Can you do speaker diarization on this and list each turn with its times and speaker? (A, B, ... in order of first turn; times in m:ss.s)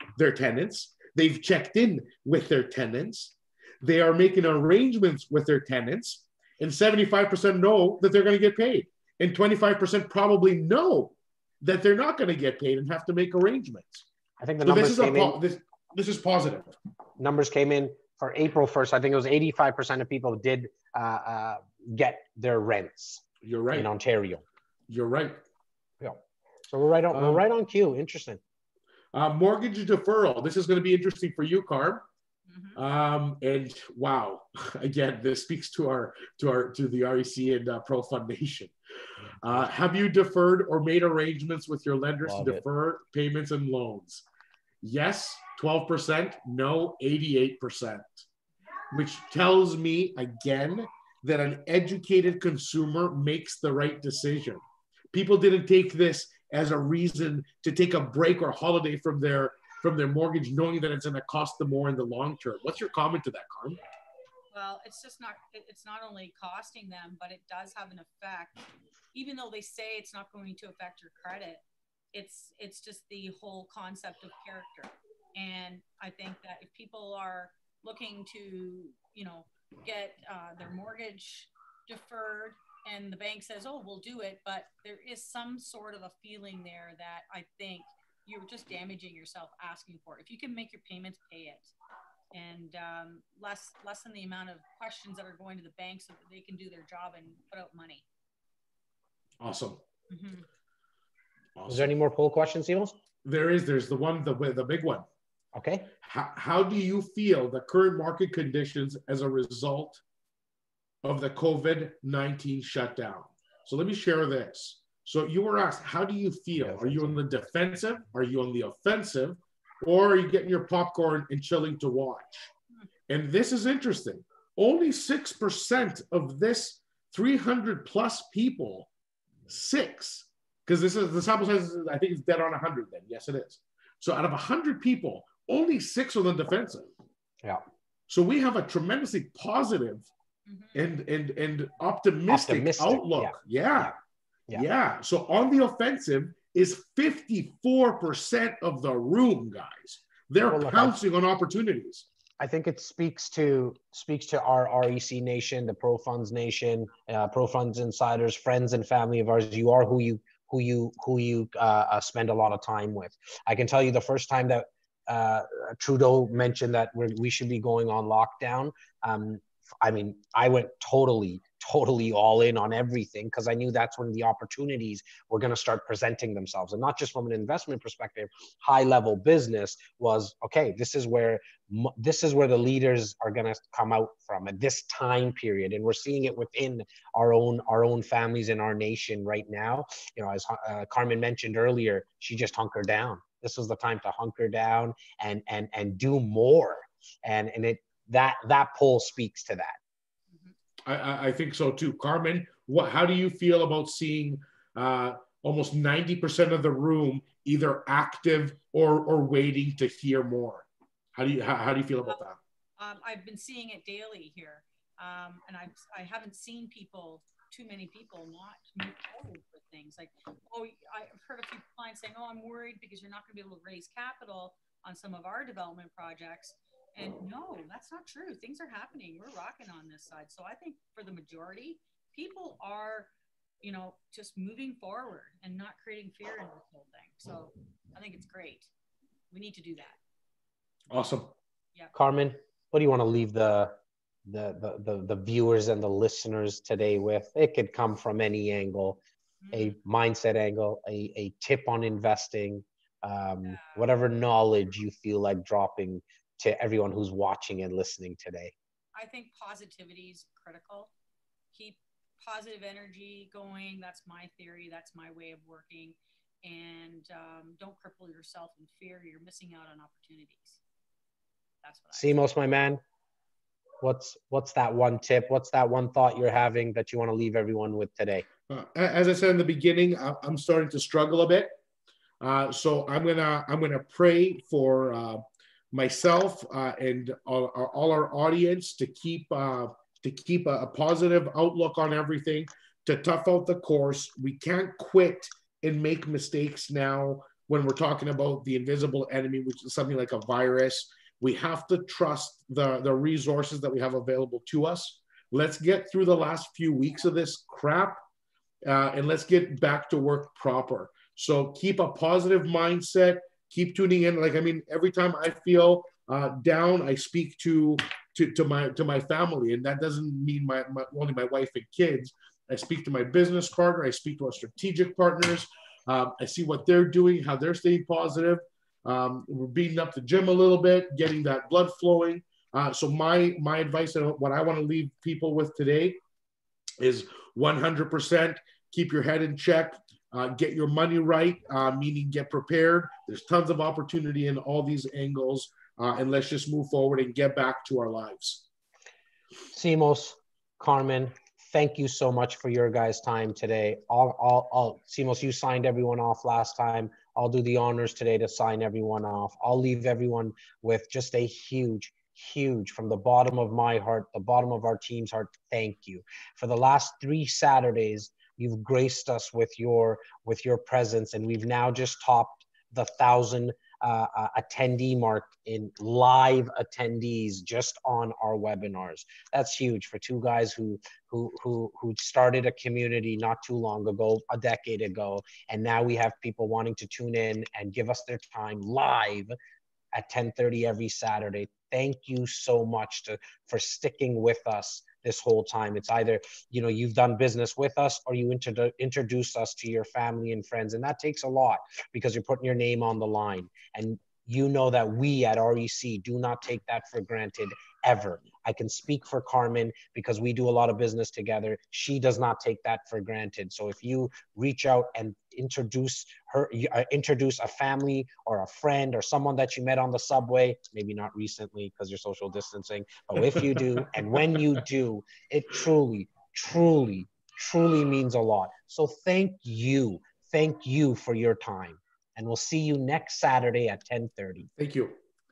0:00.2-0:14.0 A
0:14.4-0:15.4 B
0:14.6-0:16.8 A
0:17.2-0:24.4 B
0:23.4-0:23.9 A
0:24.9-0:25.4 A
0:26.0-0:28.4 B
0:27.1-0:27.4 A
0:29.1-0:32.0 A
0:32.5-0:32.8 C
0:32.8-0:38.7 A
0:39.4-0:44.2 A
0:42.2-0:42.6 B
0:44.8-0:48.2 A
0:48.9-0:54.6 A
0:55.1-1:03.8 A
1:04.5-1:08.6 C
1:09.1-1:11.6 C
1:12.1-1:31.7 C
1:32.3-1:38.0 C
1:39.4-1:39.8 A
1:40.1-1:40.4 C
1:41.6-1:41.9 A
1:41.7-1:42.9 B
1:43.2-1:45.0 A
1:45.6-1:45.9 B
1:46.0-1:50.0 A
1:51.0-2:02.5 A
1:56.6-1:57.1 B
2:03.1-2:08.9 A
2:09.5-2:16.9 A
2:18.1-2:20.1 A
2:20.5-2:20.8 C
2:20.7-2:23.9 A
2:22.3-2:23.9 B
2:24.5-2:32.0 A
2:30.5-2:31.0 B
2:32.4-3:19.8 B
3:20.8-3:32.4 A
3:32.8-3:53.1 C
3:53.6-3:58.7 C
3:59.3-4:00.0 C
4:00.9-4:01.3 A
4:01.9-4:03.7 B
4:04.3-4:09.0 B
4:09.4-4:09.8 C
4:09.5-4:18.5 B
4:13.6-4:13.8 C
4:18.9-4:20.9 C
4:21.5-4:30.6 C
4:31.6-4:32.3 C
4:31.9-4:32.8 B
4:33.8-4:38.3 B
4:38.5-4:41.6 A
4:42.2-5:08.0 A
5:08.6-5:36.0 A
5:36.8-5:48.4 A
5:49.5-6:29.3 B
6:29.9-7:14.5 B
7:14.6-7:15.0 A